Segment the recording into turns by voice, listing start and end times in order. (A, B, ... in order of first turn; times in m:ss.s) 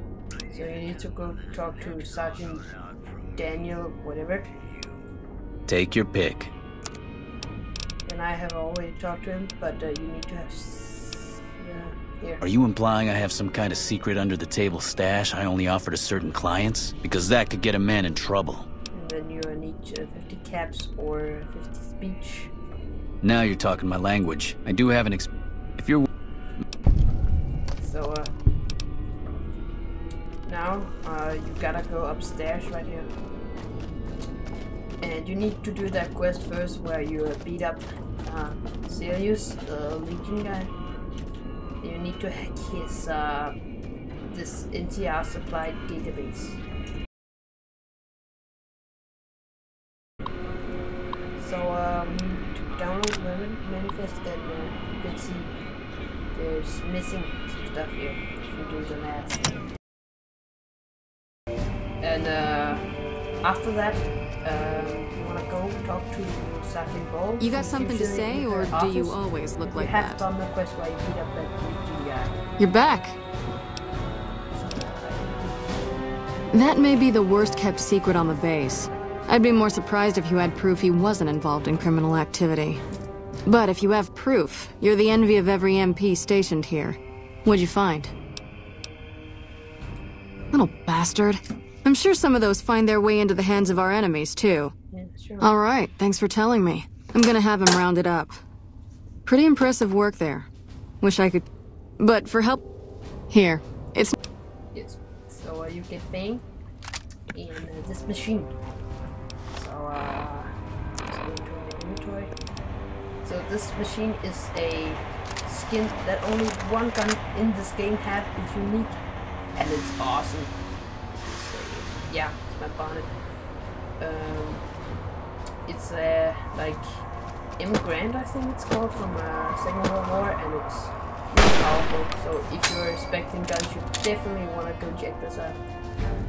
0:00.5-0:02.7 A
0:03.4-0:04.5 A
0:05.7-0:06.5 B
0:08.1-0:12.4 A
0:12.4-0:18.7 B
0:18.9-0:22.5 A
0:23.2-0:26.1 B
0:27.8-0:28.3 A
0:30.4-0:33.1 A
0:35.0-0:40.7 A
0:41.8-0:43.5 A
0:44.3-0:46.6 A
0:51.4-0:55.5 A
0:56.3-0:59.5 A
1:02.0-1:02.8 A
1:03.4-1:12.4 A
1:07.4-1:10.2 C
1:12.6-1:13.2 C
1:14.5-1:15.5 A
1:16.5-1:22.8 C
1:23.4-1:28.1 C
1:30.5-1:34.7 C
1:34.9-1:35.6 A
1:35.4-1:38.4 C
1:39.2-1:40.5 C
1:41.0-1:41.4 C
1:42.0-1:42.6 C
1:43.3-1:44.1 C
1:44.7-1:46.4 A
1:47.3-1:48.5 A
1:49.5-1:50.5 A
1:51.0-1:52.3 A
1:53.2-1:59.0 A
1:59.6-2:00.5 A
2:01.1-2:03.1 A
2:04.0-2:04.6 A
2:05.7-2:06.9 A
2:07.6-2:15.6 A